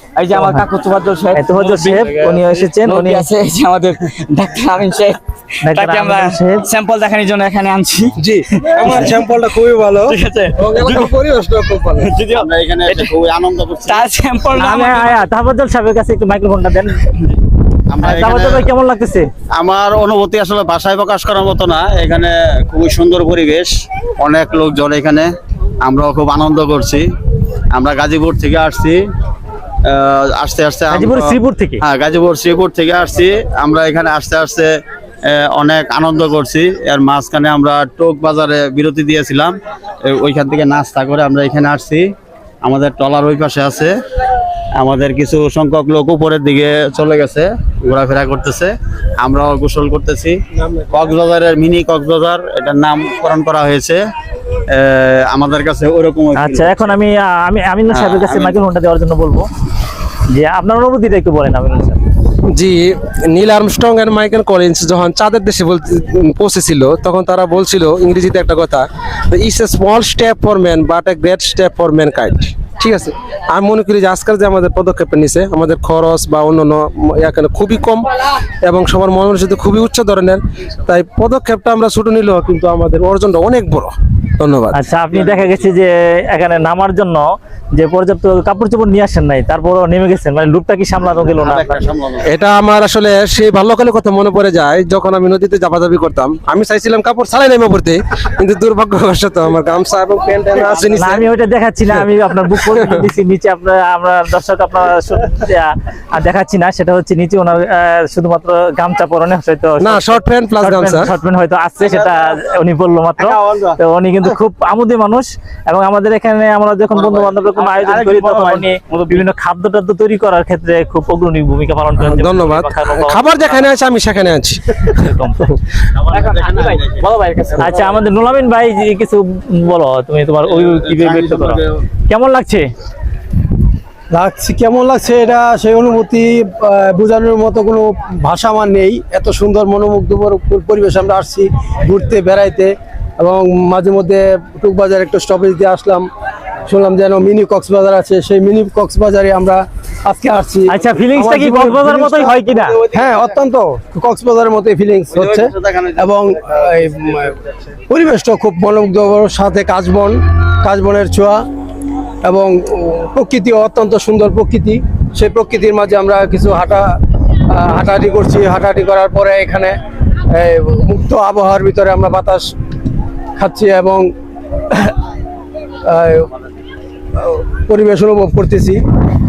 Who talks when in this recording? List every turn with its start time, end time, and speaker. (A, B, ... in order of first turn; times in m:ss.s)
0:00.2-0:09.4 A
0:00.3-0:00.7 B
0:01.3-0:03.3 B
0:05.6-0:06.7 B
0:08.2-0:09.2 C
0:08.8-0:10.1 D
0:10.0-0:11.1 A
0:10.6-0:12.0 C
0:11.9-0:13.1 A
0:12.3-0:14.1 E
0:13.8-0:15.3 A
0:14.6-0:17.1 B
0:17.9-0:18.7 E
0:18.0-0:19.3 B
0:19.5-0:25.3 E
0:25.8-0:27.1 E
0:27.7-0:29.0 E
0:29.8-0:31.3 E
0:30.9-0:31.8 B
0:31.8-0:34.7 E
0:35.3-0:42.1 E
0:42.6-0:44.0 E
0:44.8-0:50.4 E
0:50.6-0:50.9 D
0:50.9-0:54.0 E
0:54.7-0:56.9 E
0:56.4-0:59.5 B
0:57.9-0:58.6 E
1:00.3-1:02.0 B
1:02.5-1:18.1 C
1:18.6-1:24.8 C
1:24.7-1:31.8 B
1:25.2-1:25.6 E
1:31.4-1:32.3 E
1:32.2-1:41.3 C
1:40.6-1:41.1 E
1:40.9-2:03.7 B
1:42.6-1:43.0 C
1:49.8-1:51.1 C
1:53.2-1:53.6 A
1:57.0-1:59.3 A
2:02.0-2:05.0 C
2:04.8-2:05.5 B
2:06.1-2:07.1 E
2:06.2-2:08.0 A
2:07.6-2:12.7 B
2:10.5-2:11.8 E
2:14.1-2:26.1 D
2:26.7-2:37.4 D
2:30.7-2:32.8 B
2:35.1-2:36.1 E
2:37.9-2:41.4 D
2:42.2-2:47.0 D
2:47.5-2:49.8 D
2:50.3-2:52.5 D
2:53.4-2:54.1 D
2:55.8-2:56.3 D
2:57.2-2:58.8 D